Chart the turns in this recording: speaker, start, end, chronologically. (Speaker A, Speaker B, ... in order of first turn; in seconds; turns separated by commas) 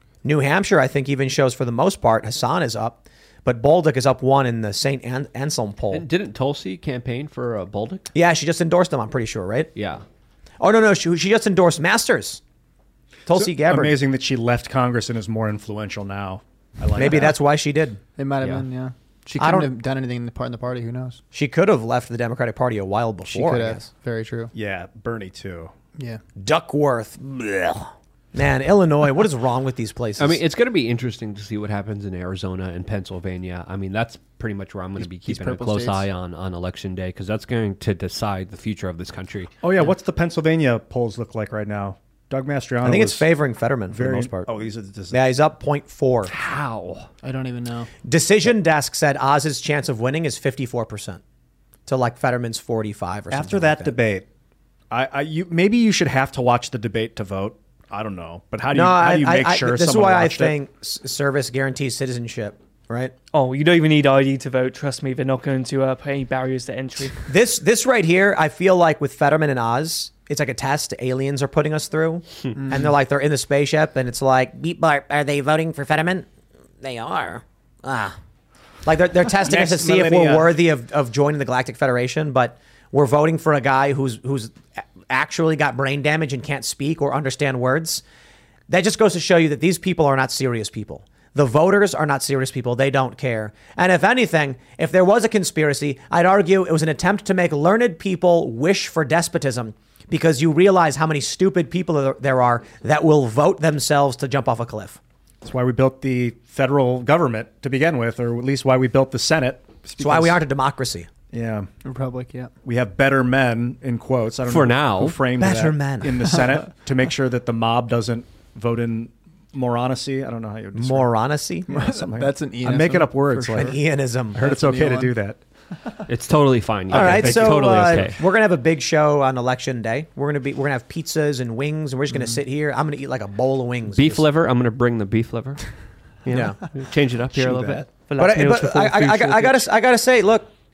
Speaker A: 0.2-6.1, Speaker B: 5.9-8.1, Speaker A: 8.1-9.7, Speaker B: 9.8-10.0, Speaker A: 10.6-12.4, Speaker A: 13.3-13.9, Speaker C: 13.3-17.4, Speaker A: 17.0-18.0, Speaker D: 18.2-21.2, Speaker A: 19.4-19.7, Speaker A: 21.3-23.9, Speaker D: 23.3-24.5, Speaker C: 24.5-25.7, Speaker D: 26.0-26.2, Speaker A: 26.4-30.4, Speaker B: 30.2-39.5, Speaker D: 35.0-36.0, Speaker C: 39.6-43.2, Speaker A: 42.8-44.5, Speaker C: 43.9-45.2, Speaker A: 45.1-46.3, Speaker B: 46.3-47.1, Speaker D: 47.2-47.9, Speaker A: 48.0-51.2, Speaker A: 51.9-54.0, Speaker C: 53.3-54.2, Speaker C: 54.9-60.6, Speaker A: 58.7-63.1, Speaker E: 63.3-67.2, Speaker A: 67.3-76.3, Speaker A: 76.8-78.2, Speaker A: 78.8-88.0, Speaker C: 79.4-80.6, Speaker A: 88.7-105.0, Speaker C: 105.4-110.4, Speaker A: 110.0-111.1, Speaker C: 111.3-111.7, Speaker D: 111.8-112.5, Speaker C: 112.6-121.2, Speaker B: 114.5-115.2, Speaker A: 115.4-116.4, Speaker A: 120.7-121.7, Speaker C: 121.7-123.8, Speaker D: 121.7-123.8, Speaker A: 123.5-124.4, Speaker D: 124.3-125.2, Speaker C: 124.4-125.4, Speaker B: 126.1-128.2, Speaker C: 126.9-128.1, Speaker A: 126.9-134.3, Speaker B: 133.9-137.8, Speaker A: 136.3-136.6, Speaker C: 137.4-137.8, Speaker E: 138.1-139.7, Speaker A: 138.2-140.5